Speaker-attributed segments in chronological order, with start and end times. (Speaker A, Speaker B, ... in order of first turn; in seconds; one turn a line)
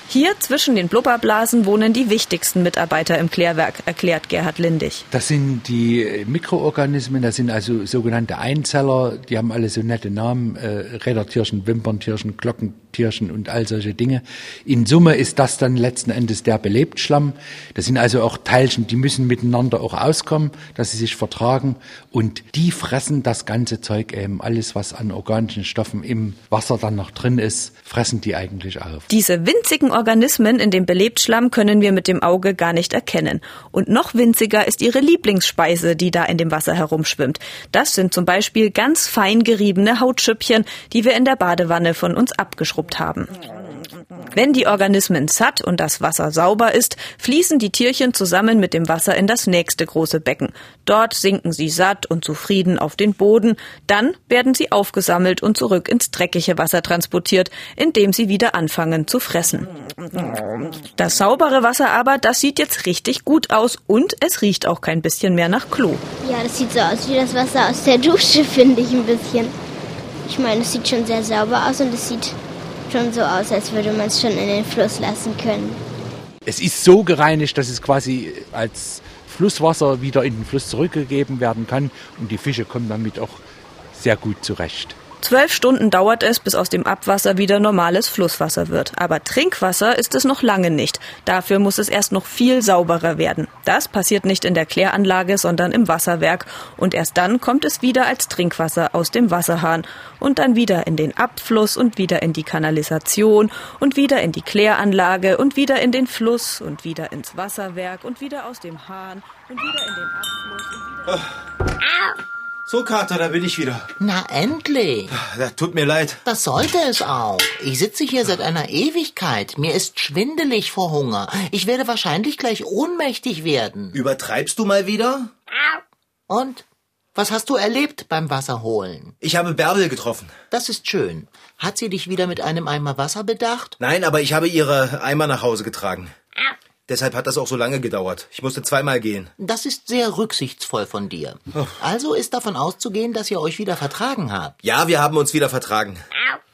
Speaker A: 0.1-5.0
Speaker B: 5.1-29.1
Speaker A: 29.1-43.4
Speaker A: 44.3-66.0
Speaker C: 66.2-69.5
Speaker C: 70.2-72.4
Speaker C: 72.9-75.8
Speaker B: 76.5-83.4
Speaker B: 83.9-85.0
Speaker A: 85.2-111.2
Speaker D: 112.7-113.9
Speaker E: 114.0-115.2
Speaker D: 115.1-116.2
Speaker E: 116.2-124.0
Speaker D: 123.9-125.3
Speaker E: 126.3-129.2
Speaker D: 129.2-130.3
Speaker E: 130.5-133.8
Speaker D: 133.8-136.1
Speaker D: 136.9-139.3
Speaker E: 139.4-144.6
Speaker D: 144.6-146.0